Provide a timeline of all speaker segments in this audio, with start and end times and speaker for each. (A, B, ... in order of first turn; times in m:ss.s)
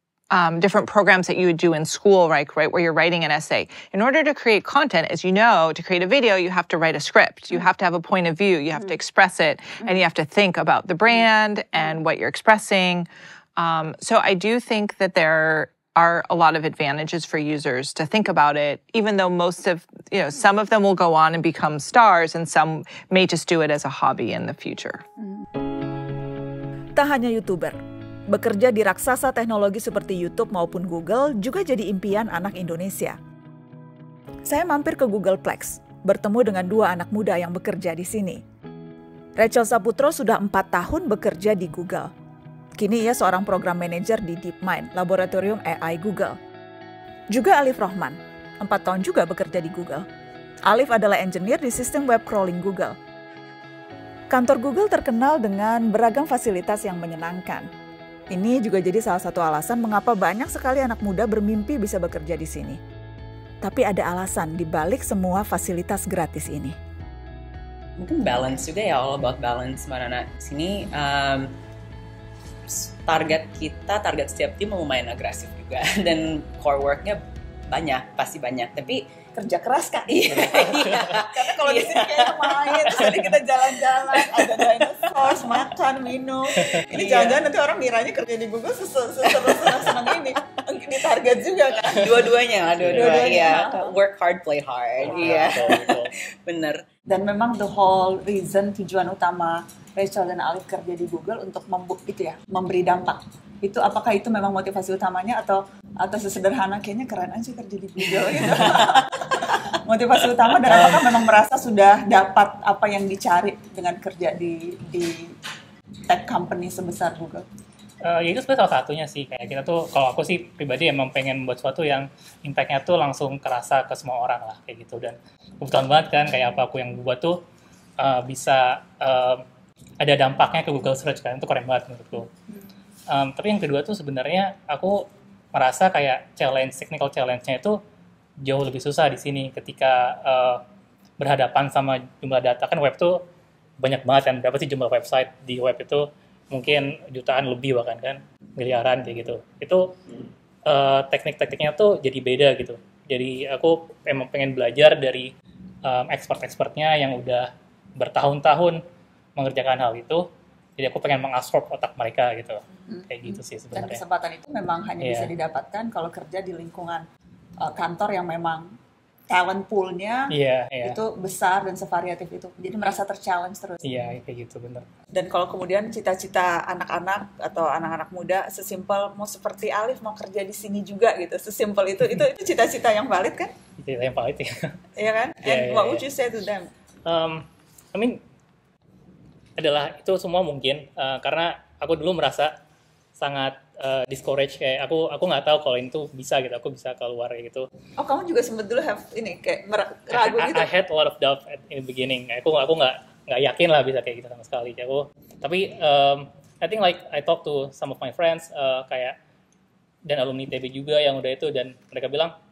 0:00.3-0:25.0 A
0:27.0-0:27.8 B
0:28.3-0:33.2 B
0:34.4-0:38.4 B
0:39.4-0:42.1 B
0:42.8-0:46.4 B
0:47.3-0:50.0 B
0:50.6-0:53.0 B
0:54.3-0:57.7 B
0:58.3-1:02.8 B
1:03.6-1:06.8 B
1:08.0-1:11.5 C
1:12.7-1:19.0 C
1:19.3-1:33.9 D
1:20.1-1:23.0 C
1:24.1-1:25.3 C
1:26.9-1:27.4 C
1:29.2-1:30.4 C
1:31.7-1:36.8 C
1:32.8-1:33.4 E
1:35.0-1:36.1 E
1:35.1-1:35.6 D
1:37.1-1:55.3 D
1:50.7-1:51.0 E
1:56.1-1:57.4 D
1:58.0-2:07.4 E
2:08.0-2:09.4 E
2:10.0-2:12.3 E
2:13.1-2:17.8 E
2:18.4-2:20.6 E
2:21.2-2:23.2 E
2:23.8-2:30.0 E
2:30.6-2:35.3 E
2:35.8-2:38.8 E
2:39.4-2:40.2 E
2:40.8-2:44.0 E
2:42.9-2:47.0 D
2:45.0-2:45.3 E
2:47.6-2:48.7 D
2:49.3-2:50.3 D
2:50.3-2:51.0 E
2:50.8-2:53.8 D
2:53.8-2:54.8 E
2:55.1-3:03.5 D
3:03.8-3:04.7 E
3:05.0-3:06.7 D
3:05.4-3:06.0 E
3:07.0-3:08.2 E
3:09.6-3:12.5 E
3:13.2-3:17.6 E
3:18.0-3:20.7 D
3:20.1-3:29.2 E
3:30.1-3:32.3 E